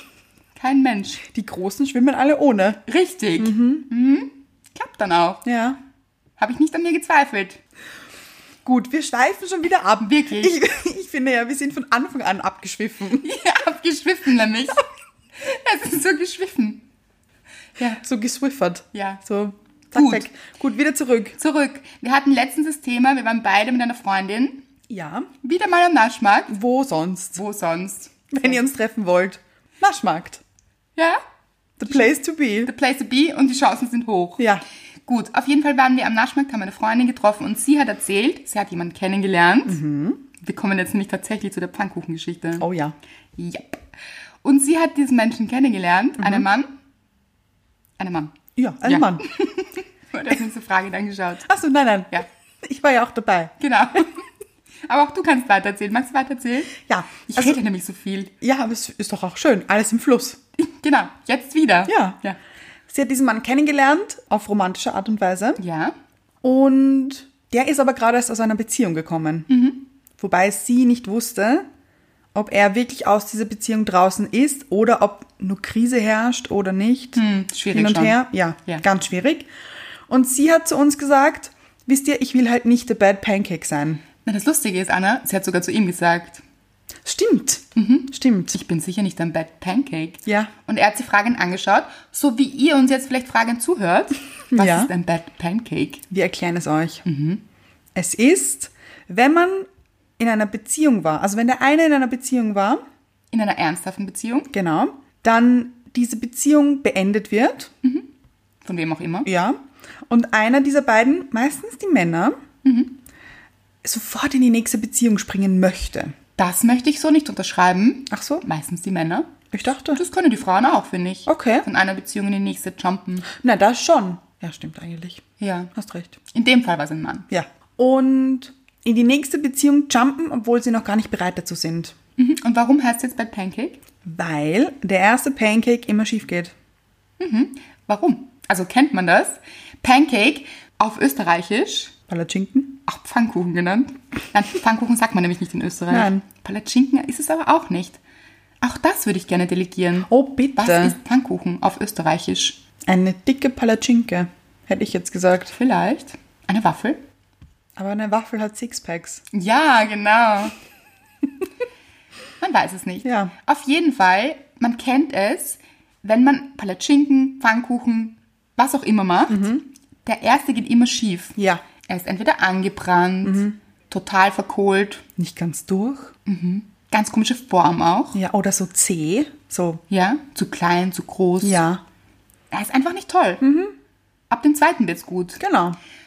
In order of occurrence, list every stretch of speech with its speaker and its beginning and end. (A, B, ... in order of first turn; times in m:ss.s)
0:00.6-0:01.2 A
0:01.2-0:02.8 B
0:02.9-0:05.4 A
0:03.4-0:03.9 B
0:05.4-0:05.8 B
0:06.4-0:07.6 A
0:08.6-0:13.3 B
0:10.0-0:10.6 A
0:13.2-0:14.8 A
0:15.4-0:16.8 A
0:18.0-0:21.4 B
0:18.9-0:19.2 A
0:19.9-0:20.2 A
0:21.4-0:24.6 A
0:24.9-0:25.3 B
0:25.4-0:26.5 A
0:26.5-0:27.4 B
0:27.4-0:28.6 A
0:28.3-0:30.4 B
0:31.0-0:31.2 A
0:31.8-0:32.7 B
0:31.9-0:34.4 A
0:34.4-0:34.6 B
0:35.0-0:39.8 A
0:39.7-0:40.2 B
0:40.4-0:42.6 A
0:42.6-0:42.9 B
0:43.4-0:43.8 A
0:44.4-0:46.7 A
0:46.2-0:46.5 B
0:48.0-0:51.5 A
0:48.6-0:49.2 B
0:51.4-0:53.5 B
0:53.6-0:54.2 A
0:54.9-0:58.3 A
0:56.8-0:57.6 B
0:58.4-1:00.4 B
1:00.6-1:02.4 A
1:01.9-1:02.2 B
1:02.9-1:05.6 B
1:05.6-1:05.9 A
1:06.4-1:09.5 B
1:09.5-1:09.8 A
1:10.2-1:11.6 B
1:12.3-1:17.2 B
1:17.1-1:18.8 A
1:17.7-1:19.5 B
1:20.1-1:24.0 B
1:24.2-1:26.4 A
1:27.0-1:28.6 B
1:27.8-1:36.0 A
1:30.2-1:30.5 B
1:34.5-1:34.9 B
1:36.1-1:37.0 B
1:37.0-1:37.4 A
1:37.9-1:39.7 B
1:40.2-1:42.8 B
1:43.3-1:44.5 A
1:44.5-1:47.7 B
1:48.6-1:49.3 A
1:49.2-1:52.4 B
1:52.6-1:53.0 A
1:53.8-1:56.1 B
1:56.4-1:59.3 A
1:58.1-1:58.4 B
1:59.5-2:00.0 B
1:59.9-2:03.3 A
2:01.3-2:01.7 B
2:03.3-2:05.2 B
2:05.4-2:05.7 A
2:05.7-2:06.2 B
2:06.3-2:07.3 A
2:07.3-2:11.9 B
2:12.2-2:13.8 A
2:14.0-2:16.5 B
2:17.2-2:21.9 A
2:22.1-2:22.8 B
2:22.9-2:28.0 A
2:25.9-2:26.2 B
2:28.6-2:32.6 A
2:30.1-2:31.0 B
2:32.8-2:35.5 B
2:35.5-2:37.0 A
2:37.8-2:39.2 B
2:39.3-2:40.5 A
2:42.4-2:51.4 A
2:43.0-2:43.3 B
2:49.3-2:49.6 B
2:51.4-2:51.6 B
2:51.9-2:55.0 A
2:53.2-2:53.6 B
2:55.2-2:56.1 B
2:56.2-2:58.2 A
2:58.1-2:59.8 B
2:59.9-3:01.6 A
3:01.4-3:01.8 B
3:02.5-3:03.4 A
3:03.4-3:03.7 B
3:04.3-3:05.4 A
3:05.4-3:05.8 B